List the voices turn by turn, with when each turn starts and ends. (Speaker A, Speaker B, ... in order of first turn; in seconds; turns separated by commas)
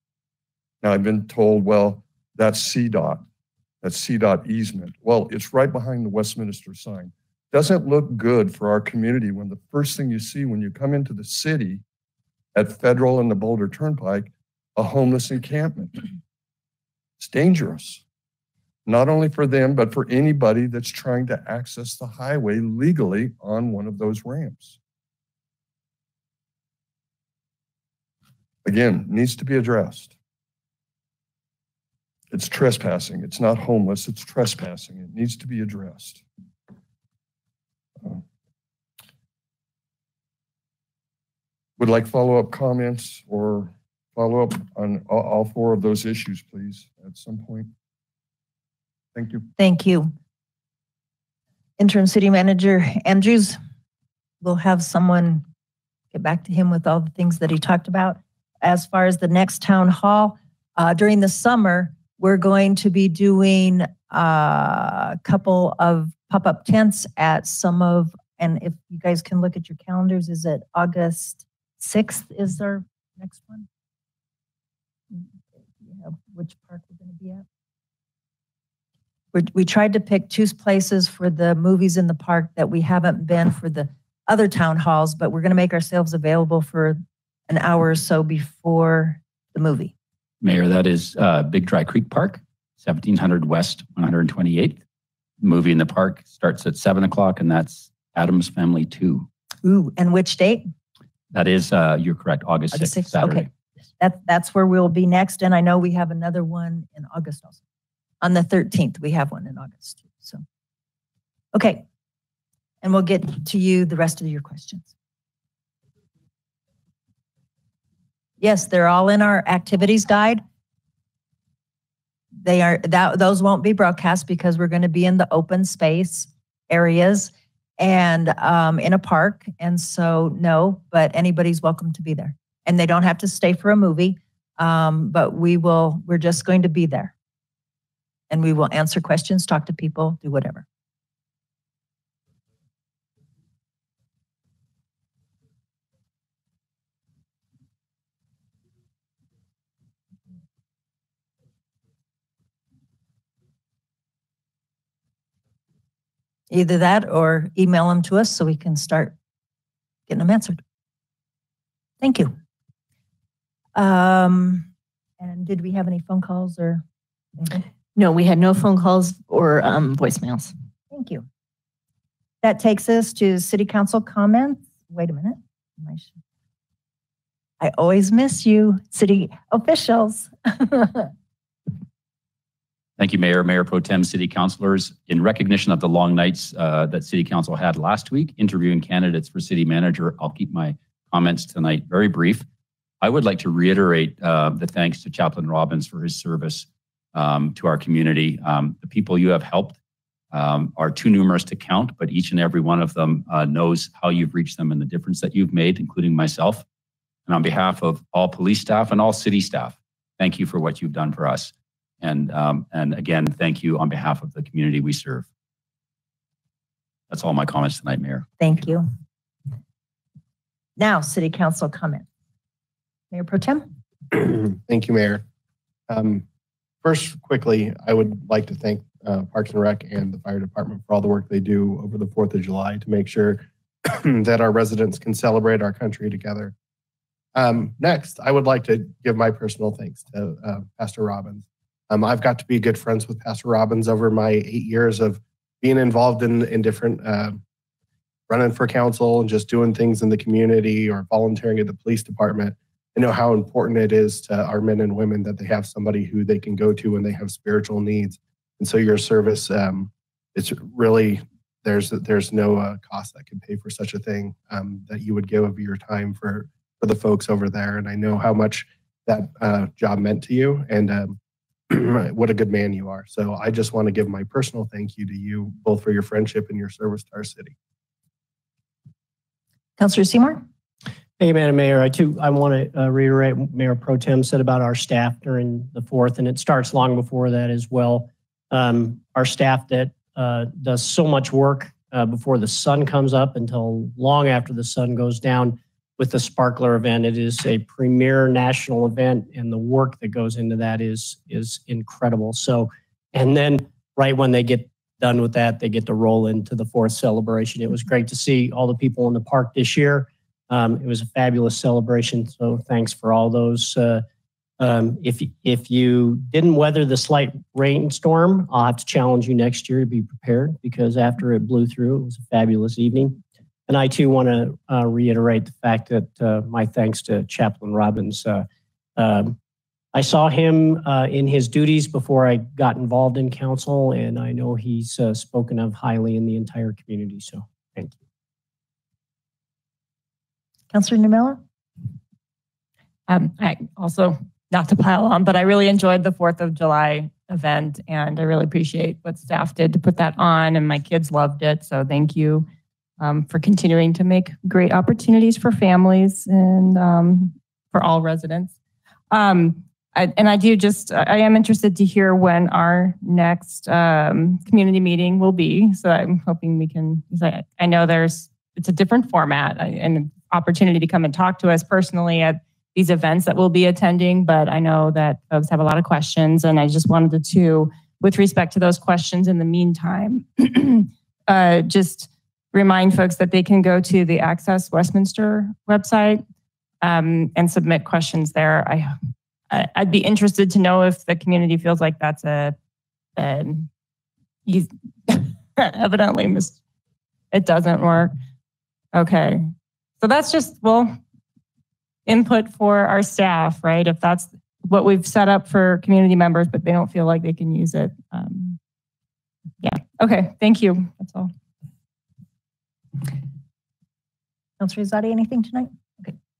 Speaker A: 0.8-3.2, Speaker A: 3.8-11.8, Speaker A: 12.5-16.1, Speaker A: 17.2-18.0, Speaker A: 18.9-24.8, Speaker A: 28.6-30.1, Speaker A: 32.3-36.2, Speaker A: 41.8-47.7, Speaker A: 49.1-49.5, Speaker B: 49.6-50.1, Speaker B: 51.8-53.6, Speaker B: 54.4-55.4, Speaker B: 56.1-73.7, Speaker B: 75.8-77.4, Speaker B: 79.3-89.9, Speaker C: 90.4-94.8, Speaker C: 95.4-99.3, Speaker B: 99.6-100.6, Speaker C: 101.3-103.5, Speaker B: 102.7-103.5, Speaker B: 104.0-107.6, Speaker B: 108.2-110.4, Speaker B: 111.5-111.8, Speaker B: 112.8-114.9, Speaker B: 118.4-120.4, Speaker B: 122.4-137.1, Speaker B: 138.3-140.6, Speaker B: 156.5-159.1, Speaker B: 160.1-160.6, Speaker B: 162.0-162.3, Speaker B: 163.8-164.7, Speaker B: 165.2-166.8, Speaker D: 167.9-170.5, Speaker B: 170.9-171.2, Speaker B: 172.4-176.2, Speaker B: 177.6-181.1, Speaker C: 183.0-192.4, Speaker C: 193.0-199.8, Speaker C: 200.3-206.6, Speaker C: 207.3-215.2, Speaker C: 217.1-218.3, Speaker B: 218.4-218.9, Speaker B: 220.8-222.0, Speaker B: 223.1-223.7, Speaker E: 224.1-225.2, Speaker E: 225.9-226.2, Speaker E: 226.8-236.5, Speaker E: 237.3-247.4, Speaker E: 248.3-271.2, Speaker E: 271.7-277.5, Speaker B: 279.8-280.4, Speaker F: 281.2-314.0, Speaker F: 314.6-328.4, Speaker F: 329.0-329.4, Speaker F: 329.9-338.0, Speaker B: 340.7-341.4, Speaker G: 343.1-352.5, Speaker G: 353.0-358.5, Speaker G: 359.1-386.2, Speaker G: 386.8-389.0, Speaker G: 389.5-392.6, Speaker G: 393.1-393.7, Speaker G: 394.4-396.6, Speaker G: 397.3-398.1, Speaker G: 398.9-401.0, Speaker G: 402.1-408.6, Speaker G: 409.6-411.3, Speaker B: 414.6-416.1